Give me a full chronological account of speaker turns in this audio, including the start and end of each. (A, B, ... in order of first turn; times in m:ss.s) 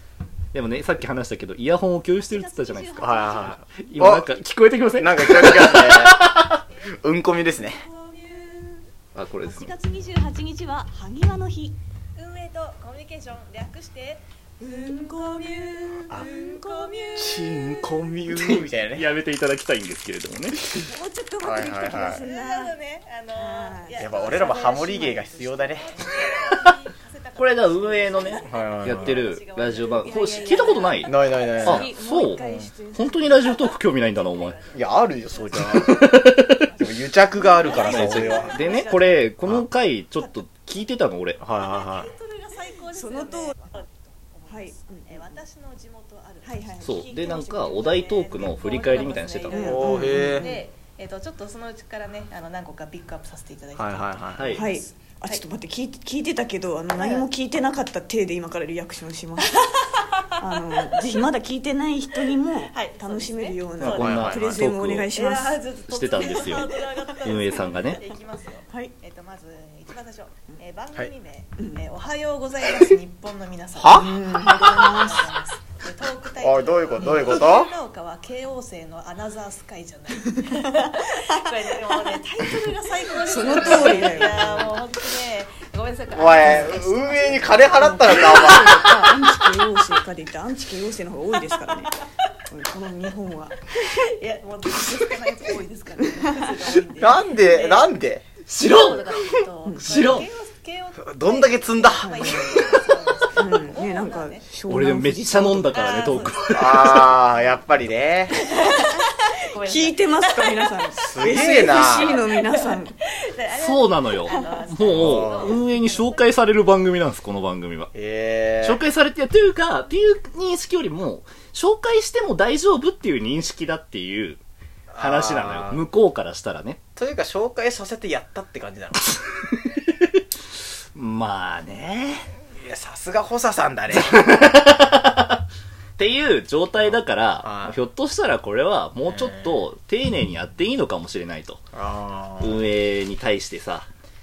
0:00.5-0:06.6 A
0:02.2-0:03.5 B
0:03.0-0:04.3 C
0:05.0-0:06.2 C
0:07.0-0:07.8 C
0:07.8-0:08.8 D
0:09.1-0:09.7 A
0:09.4-0:11.8 B
0:12.2-0:18.0 D
0:14.6-0:16.6 B
0:17.2-0:19.1 C
0:18.3-0:20.8 A
0:20.8-0:22.7 B
0:21.4-0:22.2 C
0:22.0-0:39.2 D
0:23.3-0:25.1 B
0:24.0-0:25.9 C
0:27.4-0:34.6 A
0:28.4-0:29.2 C
0:31.0-0:32.7 C
0:31.6-0:33.6 B
0:34.7-0:36.0 C
0:35.5-0:36.6 A
0:36.8-0:38.6 C
0:37.4-0:39.1 B
0:37.7-0:41.4 A
0:41.4-0:42.1 C
0:41.6-0:55.4 D
0:42.9-0:43.6 B
0:44.5-0:45.4 B
0:46.4-0:47.8 B
0:46.8-0:49.9 A
0:49.5-0:50.6 B
0:49.6-0:50.5 C
0:53.8-0:54.5 C
0:54.4-0:54.7 A
0:54.5-0:59.6 B
0:56.9-0:57.3 D
0:59.6-1:01.0 D
1:00.4-1:05.6 B
1:02.2-1:03.8 D
1:03.8-1:05.1 A
1:03.8-1:04.5 C
1:05.1-1:29.1 D
1:05.9-1:08.0 A
1:13.8-1:14.6 C
1:13.9-1:15.3 B
1:16.4-1:17.7 C
1:17.0-1:17.4 B
1:20.3-1:20.7 B
1:23.2-1:24.7 B
1:23.6-1:24.0 C
1:26.1-1:28.8 C
1:26.3-1:26.7 B
1:27.7-1:32.0 B
1:32.5-1:33.9 B
1:33.7-1:38.0 D
1:36.0-1:36.6 B
1:37.0-1:38.2 C
1:38.5-1:40.3 A
1:38.6-1:44.6 D
1:41.0-1:42.6 C
1:42.0-1:42.5 B
1:43.4-1:46.3 B
1:44.7-1:47.2 A
1:45.6-1:47.4 D
1:46.5-1:48.5 C
1:48.3-1:51.2 D
1:48.4-1:49.0 B
1:49.5-1:52.9 B
1:50.9-1:52.2 C
1:51.8-1:56.7 D
1:53.5-1:57.9 A
1:54.3-1:54.6 B
1:54.9-1:55.6 C
1:57.9-1:58.8 C
1:58.6-2:04.4 A
2:04.9-2:05.8 C
2:05.0-2:06.8 A
2:07.0-2:09.1 C
2:09.8-2:10.2 A
2:10.9-2:12.3 A
2:12.5-2:14.5 C
2:13.9-2:15.4 A
2:16.0-2:21.6 A
2:17.4-2:17.8 C
2:19.1-2:19.6 C
2:21.7-2:22.6 C
2:22.4-2:23.8 A